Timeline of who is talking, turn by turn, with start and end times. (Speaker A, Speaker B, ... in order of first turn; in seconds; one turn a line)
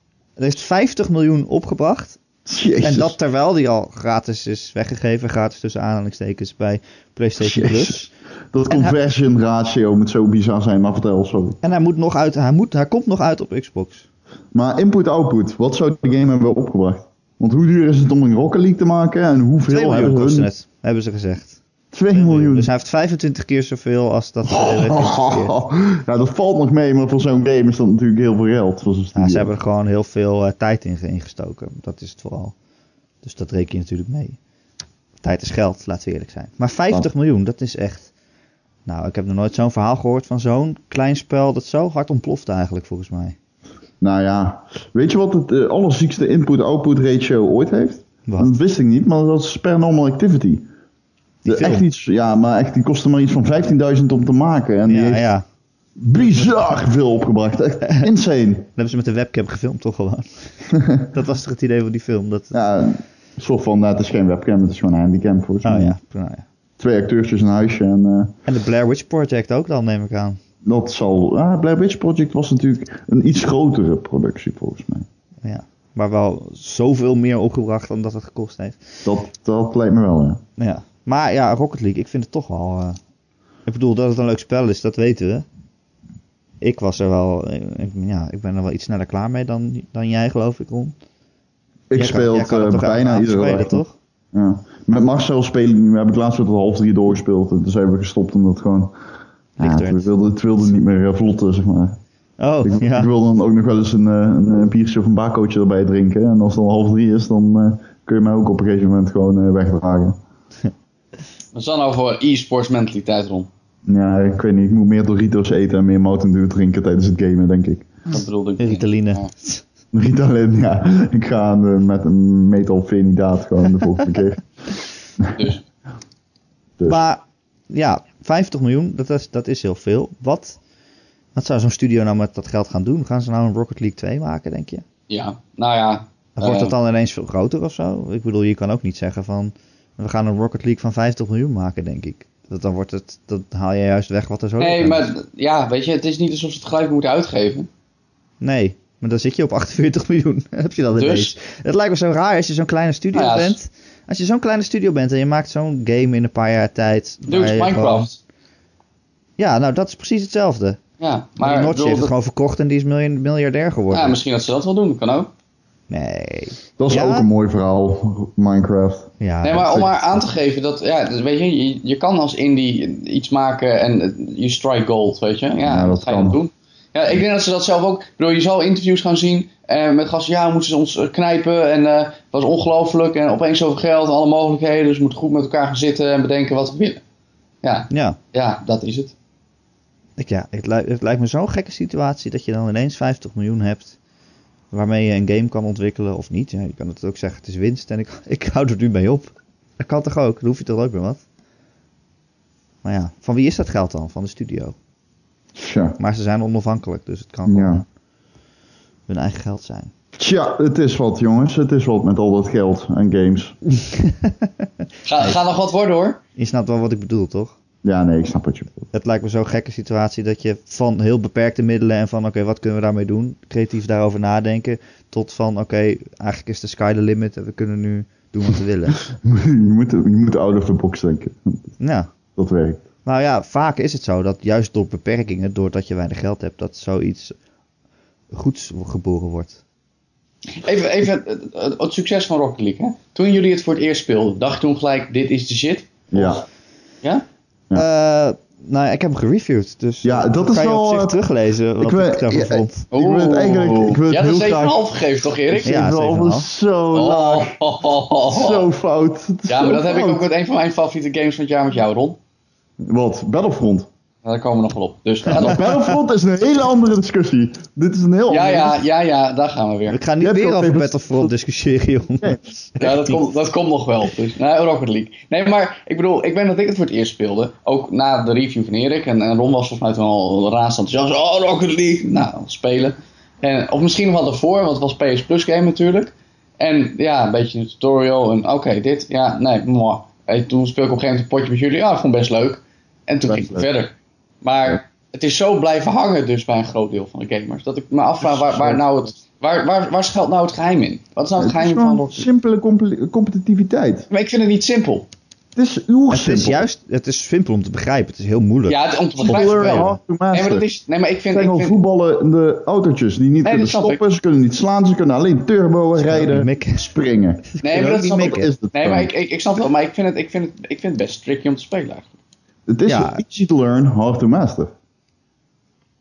Speaker A: 0.4-2.2
Speaker B: 2.5-3.1
Speaker A: 2.8-8.1
Speaker B: 7.4-11.6
Speaker A: 8.7-9.0
Speaker A: 11.6-14.1
Speaker B: 14.5-20.5
Speaker A: 19.7-21.6
Speaker B: 21.9-22.7
Speaker A: 22.1-25.5
Speaker B: 24.5-29.5
Speaker A: 29.1-32.5
Speaker A: 33.2-34.4
Speaker A: 35.2-38.1
Speaker A: 38.9-43.4
Speaker B: 44.0-50.6
Speaker A: 51.4-51.9
Speaker B: 51.5-55.3
Speaker A: 54.9-55.4
Speaker B: 56.0-58.7
Speaker A: 58.8-60.5
Speaker B: 60.7-61.1
Speaker A: 61.1-62.5
Speaker B: 62.5-65.9
Speaker A: 65.6-66.4
Speaker B: 66.8-68.3
Speaker A: 68.5-70.4
Speaker B: 70.6-75.0
Speaker A: 75.4-78.8
Speaker B: 79.0-80.4
Speaker A: 80.6-83.0
Speaker A: 83.7-85.5
Speaker A: 86.6-91.0
Speaker B: 91.9-93.8
Speaker A: 91.9-93.9
Speaker B: 94.3-98.9
Speaker A: 99.6-100.0
Speaker B: 99.6-102.0
Speaker A: 102.4-103.1
Speaker B: 102.6-110.2
Speaker C: 111.5-113.5
Speaker B: 113.8-117.9
Speaker C: 118.1-119.3
Speaker A: 118.6-119.6
Speaker B: 119.9-124.5
Speaker C: 125.3-125.7
Speaker A: 126.9-130.6
Speaker A: 131.3-134.8
Speaker C: 135.1-136.7
Speaker A: 136.3-145.1
Speaker C: 144.6-147.7
Speaker A: 148.4-158.1
Speaker C: 150.9-151.3
Speaker C: 153.1-153.6
Speaker C: 157.3-158.2
Speaker A: 159.4-160.8
Speaker C: 161.0-162.1
Speaker A: 161.4-164.2
Speaker C: 163.9-165.3
Speaker A: 165.9-167.3
Speaker B: 166.8-169.1
Speaker A: 169.2-170.2
Speaker C: 169.4-187.0
Speaker B: 175.6-176.4
Speaker C: 187.6-189.1
Speaker A: 187.9-188.2
Speaker A: 190.2-193.9
Speaker A: 194.7-201.2
Speaker A: 202.8-204.7
Speaker B: 205.6-206.0
Speaker A: 206.0-207.8
Speaker B: 207.5-207.8
Speaker A: 209.1-209.9
Speaker B: 210.2-213.6
Speaker A: 213.8-214.7
Speaker C: 215.0-216.2
Speaker A: 216.4-217.5
Speaker B: 217.8-218.9
Speaker A: 218.9-229.0
Speaker B: 229.2-231.7
Speaker A: 231.8-232.1
Speaker B: 232.4-232.8
Speaker A: 233.0-237.3
Speaker A: 238.3-239.6
Speaker C: 240.5-246.4
Speaker B: 246.1-246.4
Speaker A: 247.7-252.8
Speaker B: 250.0-251.2
Speaker B: 251.8-254.9
Speaker C: 252.9-255.8
Speaker B: 255.5-257.6
Speaker A: 255.6-256.5
Speaker C: 256.9-258.6
Speaker B: 258.2-260.2
Speaker C: 259.5-262.2
Speaker B: 262.8-263.9
Speaker C: 264.2-265.7
Speaker B: 265.3-268.8
Speaker A: 265.4-265.9
Speaker C: 268.3-270.0
Speaker A: 269.9-273.2
Speaker B: 270.2-271.3
Speaker C: 272.8-302.3
Speaker B: 293.3-293.7
Speaker B: 298.2-298.8
Speaker B: 301.4-304.1
Speaker C: 304.1-305.1
Speaker B: 305.6-306.6
Speaker A: 306.1-309.9
Speaker C: 308.7-311.8
Speaker B: 309.2-310.6
Speaker B: 311.3-319.1
Speaker C: 313.4-314.0
Speaker A: 315.9-316.9
Speaker A: 317.6-318.5
Speaker C: 317.6-322.1
Speaker B: 322.7-324.7
Speaker A: 322.9-323.2